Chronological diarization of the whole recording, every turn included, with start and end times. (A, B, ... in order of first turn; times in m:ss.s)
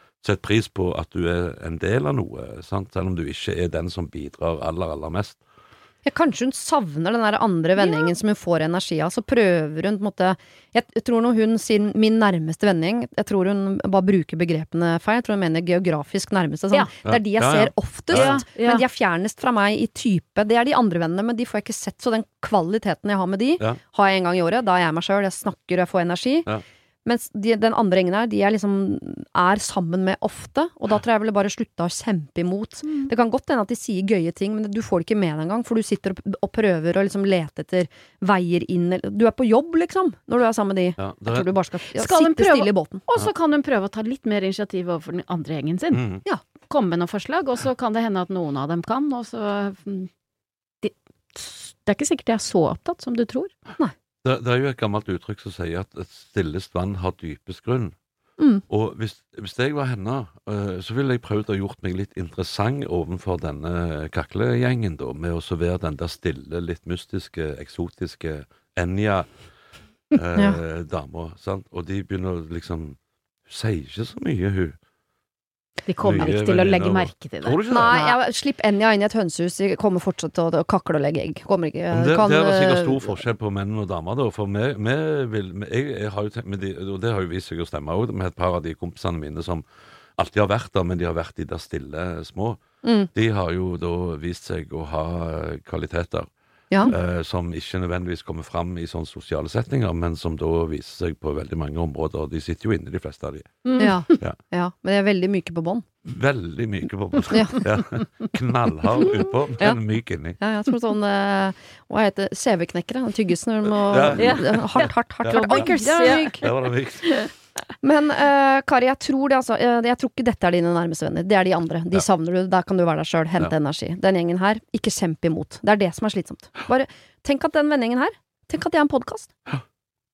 0:00.2-0:05.4 A
0:06.0-0:26.5 B
0:07.8-0:08.1 C
0:17.1-0:18.4 A
0:18.1-0:18.8 C
0:27.0-0:43.1 B
0:41.0-0:41.5 A
0:41.8-0:50.1 C
0:45.9-0:46.2 A
0:50.8-0:53.5 C
0:54.2-0:58.0 A
0:58.4-0:58.6 B
0:58.7-1:09.5 A
1:10.1-1:14.8 A
1:15.8-1:18.2 C
1:16.0-1:18.0 A
1:17.7-1:23.2 B
1:21.9-1:29.7 A
1:30.2-1:36.3 A
1:32.8-1:33.1 B
1:36.9-1:43.5 A
1:43.6-1:44.1 C
1:43.8-1:45.9 B
1:46.1-1:50.4 A
1:47.3-1:47.6 B
1:50.4-1:56.5 B
1:53.8-1:57.0 A
1:54.2-1:56.5 C
1:57.8-2:09.4 B